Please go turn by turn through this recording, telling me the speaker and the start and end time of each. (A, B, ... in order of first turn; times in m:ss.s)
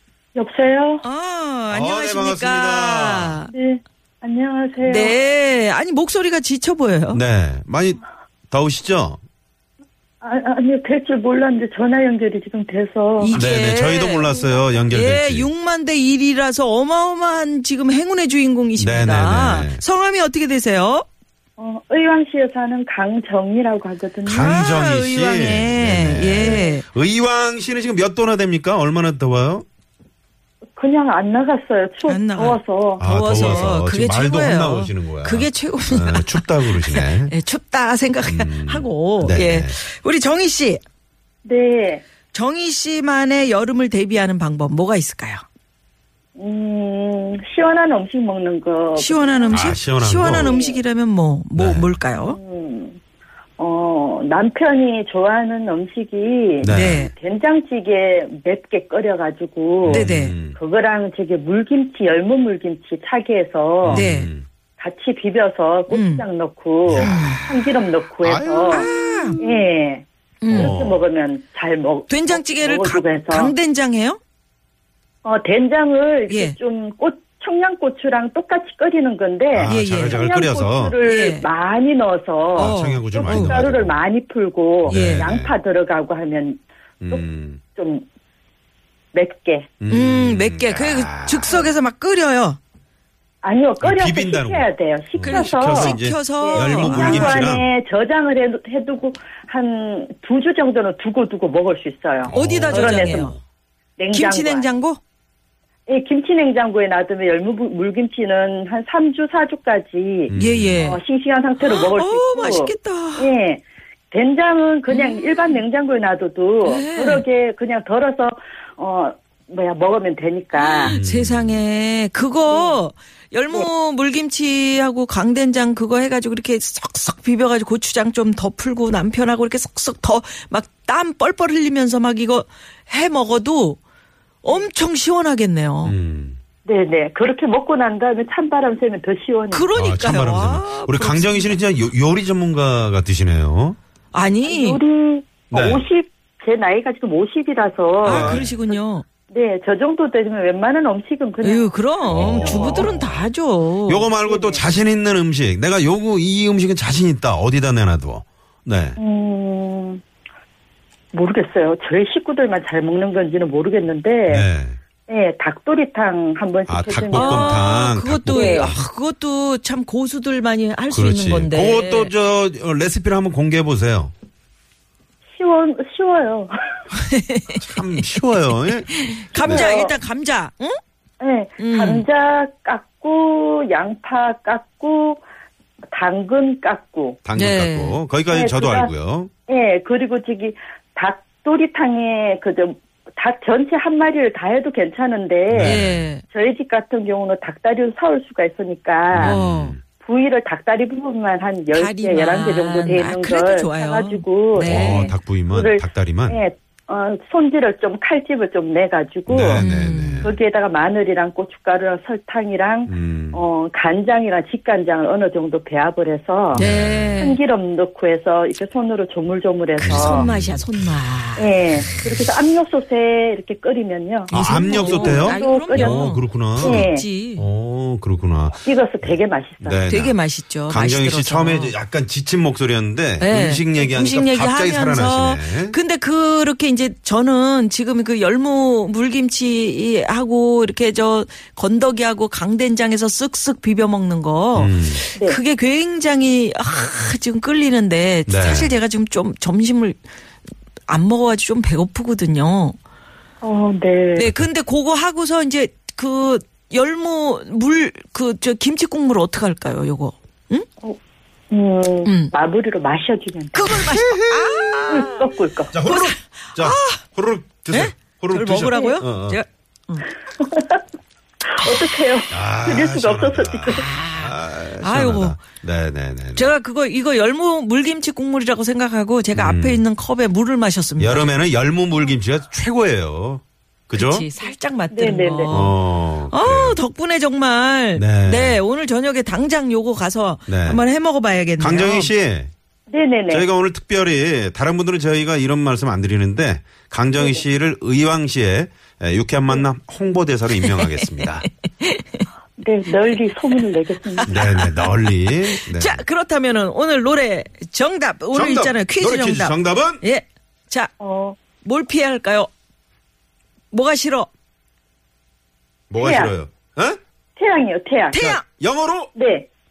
0:00.4-0:01.0 A
0:01.0-0:03.5 B
0:01.7-0:03.4 C
0:03.5-0:05.2 A
0:04.8-0:07.2 B
0:07.1-0:09.2 C
0:10.2-0:13.4 A
0:13.2-0:21.1 B
0:13.3-0:15.5 C
0:18.8-0:19.8 C
0:21.6-0:24.8 A
0:24.3-0:29.6 C
0:24.3-0:26.8 B
0:30.8-0:33.7 A
0:32.1-0:40.8 B
0:33.0-0:37.4 C
0:38.2-0:39.8 C
0:41.4-0:42.0 A
0:42.3-0:45.4 B
0:46.4-0:50.8 A
0:49.0-0:52.4 B
0:49.5-0:50.6 C
0:51.6-0:52.0 C
0:52.2-0:53.0 A
0:53.6-1:04.1 A
0:56.6-0:57.0 C
0:56.6-0:57.1 B
0:59.8-1:00.6 C
0:59.9-1:00.4 B
1:03.8-1:04.5 C
1:03.9-1:04.3 B
1:04.8-1:13.5 A
1:05.9-1:06.3 B
1:06.9-1:09.3 C
1:07.0-1:07.4 B
1:08.7-1:09.4 B
1:10.4-1:10.8 B
1:10.5-1:11.0 C
1:12.1-1:14.2 B
1:15.2-1:27.2 A
1:16.3-1:16.6 B
1:19.5-1:21.0 C
1:19.7-1:20.2 B
1:21.0-1:21.5 B
1:22.5-1:24.0 C
1:22.6-1:23.6 B
1:24.9-1:25.3 B
1:24.9-1:25.5 C
1:27.0-1:27.6 C
1:27.8-1:28.0 A
1:29.1-1:29.7 A
1:29.8-1:31.7 C
1:29.9-1:32.6 B
1:33.4-1:43.4 A
1:33.8-1:37.7 C
1:35.2-1:37.5 B
1:42.3-1:43.4 C
1:42.3-1:43.4 B
1:44.0-1:44.7 A
1:44.1-1:45.0 B
1:45.9-2:01.0 A
1:50.3-1:51.0 C
1:50.3-1:51.0 B
1:51.6-1:53.3 B
1:54.9-1:55.6 B
1:56.6-1:57.2 B
2:00.5-2:13.8 B
2:00.8-2:01.6 C
2:02.5-2:02.8 A
2:14.4-2:16.0 B
2:15.8-2:16.4 C
2:16.6-2:19.7 A
2:19.5-2:21.6 B
2:19.8-2:23.8 C
2:24.1-2:24.8 B
2:24.4-2:28.8 A
2:25.5-2:25.8 C
2:28.0-2:29.0 B
2:28.0-2:28.5 C
2:29.3-2:32.9 A
2:31.4-2:34.1 B
2:32.1-2:33.3 C
2:33.9-2:39.0 C
2:34.3-2:34.7 A
2:39.0-2:40.0 A
2:41.1-2:44.5 A
2:44.3-2:44.8 C
2:45.1-2:47.7 A
2:46.7-2:48.8 C
2:47.1-2:52.1 B
2:48.3-2:48.7 A
2:50.9-2:54.1 C
2:55.4-2:56.5 A
2:56.9-3:00.8 B
2:57.6-2:59.7 C
2:59.4-3:00.0 A
3:01.2-3:05.2 A
3:01.6-3:02.0 B
3:05.9-3:07.2 A
3:07.2-3:09.3 C
3:07.4-3:08.0 B
3:08.3-3:08.9 A
3:09.5-3:19.4 A
3:15.5-3:16.0 C
3:15.6-3:16.2 B
3:19.1-3:19.8 C
3:19.2-3:19.8 B
3:20.0-3:29.6 A
3:21.7-3:25.1 B
3:24.6-3:26.4 C
3:29.3-3:30.4 C
3:29.6-3:30.3 B
3:30.2-3:36.6 A
3:32.9-3:33.4 C
3:36.5-3:37.2 C
3:36.5-3:37.4 B
3:37.2-3:40.3 A
3:39.8-3:41.6 B
3:39.8-3:40.7 C
3:41.4-3:47.0 A
3:44.3-3:47.5 B
3:44.3-3:55.8 C
3:48.6-3:49.8 A
3:49.9-3:51.8 B
3:53.2-4:10.0 B
4:04.6-4:05.0 C
4:05.2-4:05.4 A
4:08.3-4:08.8 C
4:10.9-4:12.8 B
4:13.4-4:14.3 A
4:14.2-4:20.7 B
4:21.5-4:23.8 A
4:22.0-4:22.3 B
4:23.5-4:25.3 B
4:23.9-4:24.8 C
4:24.9-4:25.8 A
4:25.7-4:29.4 C
4:25.8-4:27.0 B
4:27.7-4:30.1 B
4:28.7-4:29.0 A
4:30.4-4:30.8 A
4:31.6-4:33.9 A
4:32.3-4:36.5 C
4:33.7-4:35.4 B
4:36.4-4:41.3 B
4:39.3-4:39.9 C
4:41.0-4:44.3 C
4:43.9-4:52.1 B
4:44.9-4:45.5 A
4:45.5-4:46.8 C
4:48.0-4:48.6 C
4:50.5-4:50.8 C
4:51.6-4:52.5 C
4:52.9-4:53.5 A
4:53.3-5:01.5 C
4:57.2-4:57.4 A
5:00.6-5:02.3 B
5:02.6-5:04.3 A
5:04.2-5:10.9 B
5:04.3-5:06.0 C
5:08.3-5:10.0 C
5:11.0-5:11.4 A
5:11.6-5:12.5 B
5:13.7-5:14.3 B
5:15.9-5:17.0 C
5:16.0-5:16.3 A
5:17.4-5:18.2 A
5:18.1-5:18.4 B
5:18.2-5:19.1 C
5:19.2-5:19.5 A